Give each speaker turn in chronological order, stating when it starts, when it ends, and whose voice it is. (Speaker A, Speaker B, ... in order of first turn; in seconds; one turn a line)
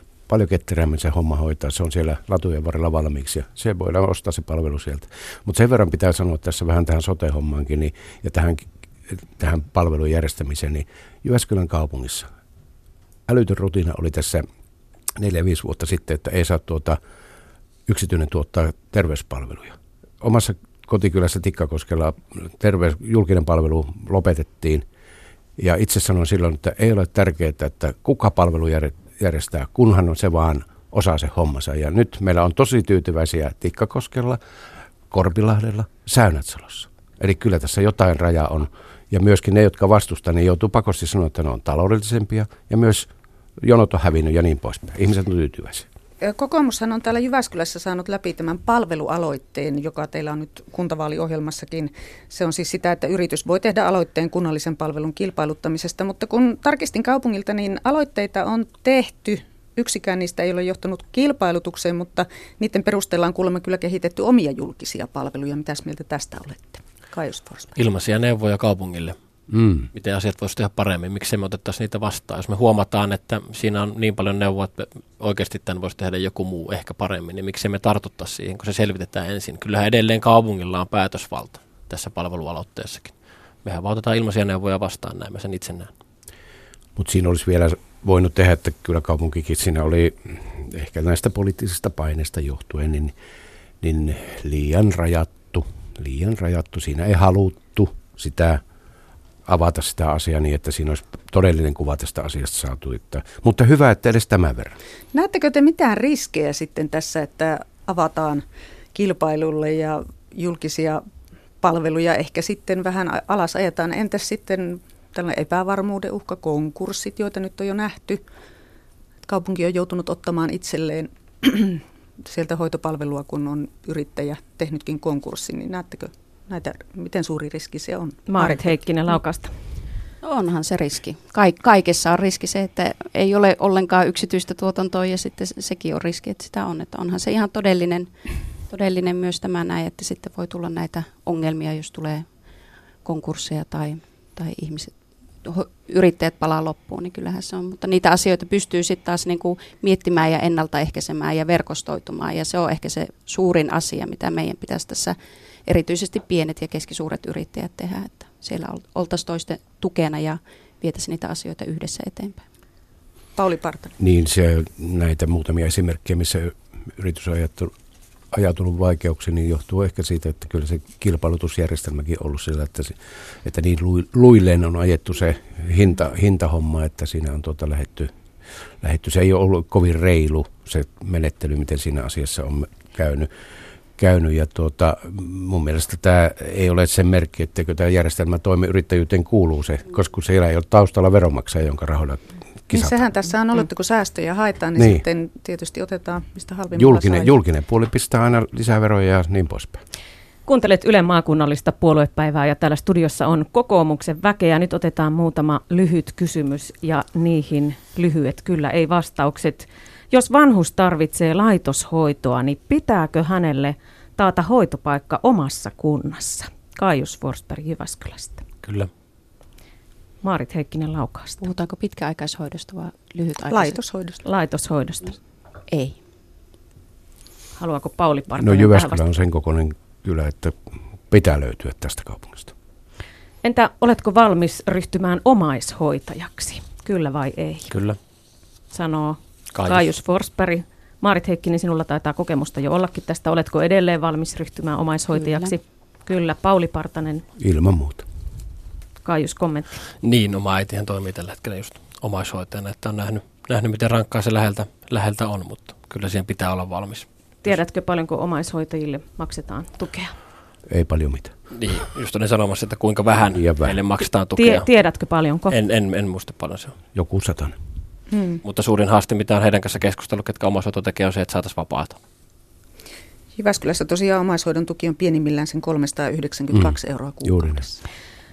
Speaker A: 0.3-12.3
Speaker A: 13.3-14.5
Speaker A: 15.2-17.0
Speaker A: 17.9-24.9
Speaker A: 25.6-34.4
Speaker A: 35.1-43.1
Speaker A: 43.6-45.9
Speaker B: 46.2-67.8
Speaker C: 67.8-69.2
Speaker A: 69.5-69.9
Speaker C: 69.9-85.9
Speaker A: 87.0-93.1
Speaker A: 93.8-98.6
Speaker A: 99.5-104.8
Speaker B: 105.1-111.0
Speaker B: 111.6-118.2
Speaker B: 119.2-128.8
Speaker D: 128.3-129.5
Speaker E: 130.2-142.3
Speaker E: 143.1-144.9
Speaker E: 145.4-162.4
Speaker B: 163.4-163.9
Speaker A: 164.0-167.7
Speaker A: 168.3-178.1
Speaker A: 178.8-183.3
Speaker A: 184.0-193.1
Speaker B: 192.7-197.3
Speaker A: 194.8-195.1
Speaker A: 196.8-199.8
Speaker D: 200.5-218.4
Speaker C: 218.6-218.9
Speaker D: 220.2-221.4
Speaker E: 221.4-223.8
Speaker B: 223.5-224.2
Speaker D: 224.2-225.2
Speaker E: 225.7-226.0
Speaker D: 227.6-229.0
Speaker A: 228.4-232.5
Speaker D: 233.4-237.7
Speaker C: 237.7-238.0
Speaker D: 238.7-247.2
Speaker C: 239.5-239.9
Speaker E: 245.1-245.5
Speaker A: 247.4-248.1
Speaker D: 249.1-249.8
Speaker C: 250.0-257.6
Speaker D: 257.4-260.2
Speaker A: 260.7-261.4
Speaker C: 261.5-264.7
Speaker A: 263.3-263.8
Speaker D: 264.4-265.5
Speaker C: 265.5-266.8
Speaker A: 266.9-267.6
Speaker B: 268.1-268.4
Speaker C: 268.4-272.0
Speaker B: 273.4-277.8
Speaker A: 276.5-277.6